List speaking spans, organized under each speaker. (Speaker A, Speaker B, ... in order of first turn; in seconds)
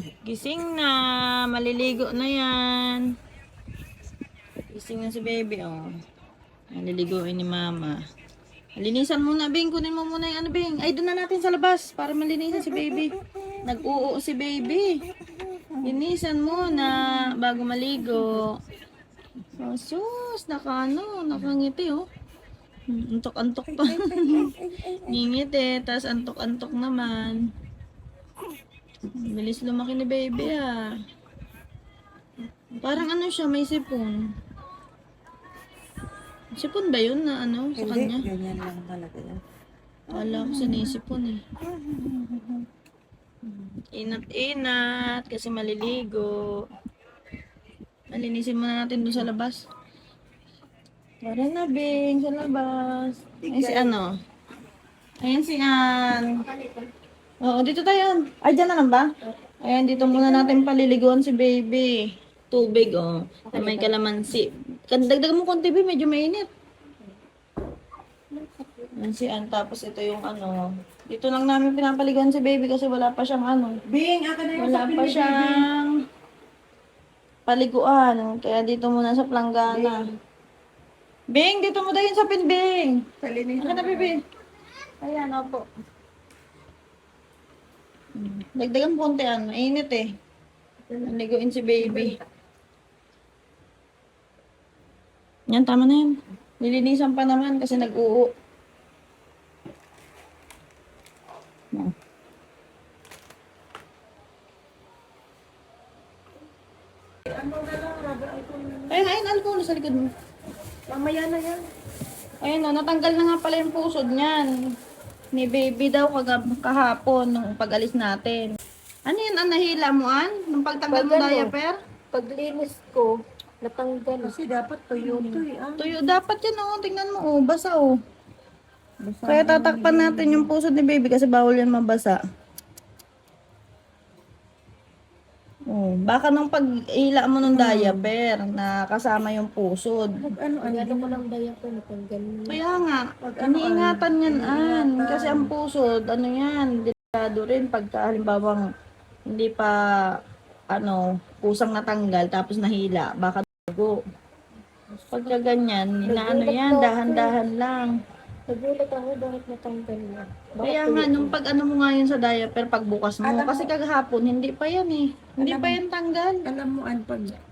Speaker A: 0.2-3.1, 4.7-5.9, 6.7-8.0, 8.8-15.0, 15.8-18.5, 19.6-22.0, 22.9-27.4, 29.1-30.8, 32.8-34.2, 36.5-38.2, 40.1-41.4, 43.7-46.6, 48.1-49.6, 51.2-54.1, 55.2-56.5, 57.4-59.1, 59.6-66.5, 68.9-73.8, 74.5-75.9, 77.5-80.0, 81.3-83.0, 83.6-84.2, 85.0-85.6, 88.2-90.1, 91.0-92.2, 95.5-98.3, 108.9-110.0, 112.4-114.5, 115.3-118.5, 119.0-121.8, 125.8-127.9, 129.3-132.2, 135.7-140.1, 142.5-148.6, 149.3-149.8, 150.7-153.9, 155.1-157.9, 160.6-166.4
Speaker B: 23.7-25.1, 37.8-39.4, 53.4-54.0, 73.9-75.7, 79.7-80.1, 83.2-84.1, 107.2-109.1, 110.9-111.6, 124.2-125.9, 129.0-130.5, 137.4-138.1, 140.3-141.2, 143.2-145.5, 163.2-163.7, 165.4-165.8, 166.4-167.3
Speaker C: 63.5-64.0, 120.9-121.5, 122.1-124.3, 125.0-125.4, 140.6-142.6, 156.0-157.3, 158.5-161.4